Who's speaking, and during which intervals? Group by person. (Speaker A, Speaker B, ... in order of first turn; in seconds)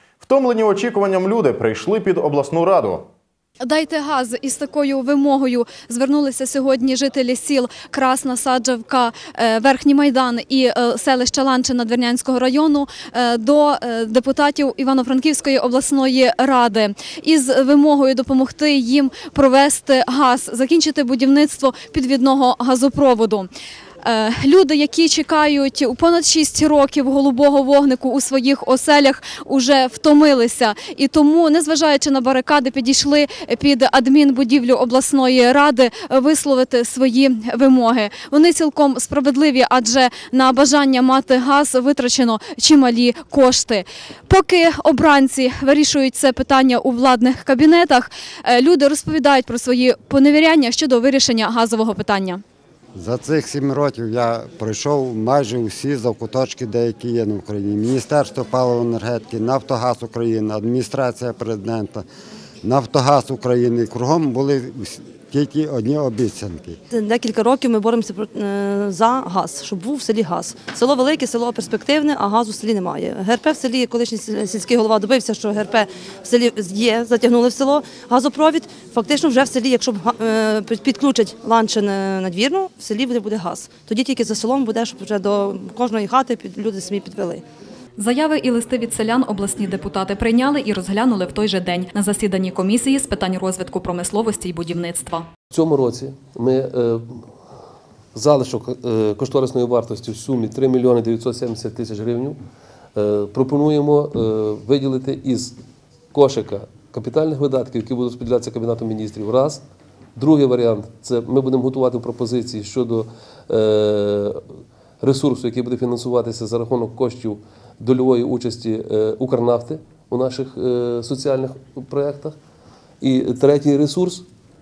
Speaker A: 0.2-3.1
Speaker B: 3.6-23.5, 24.0-52.4
Speaker C: 53.0-62.0, 62.6-66.8
Speaker D: 66.9-87.4
Speaker E: 88.0-95.3
Speaker F: 95.5-97.0, 98.1-102.4, 103.0-105.6, 106.1-109.6, 110.2-114.4, 115.0-122.4, 123.0-124.3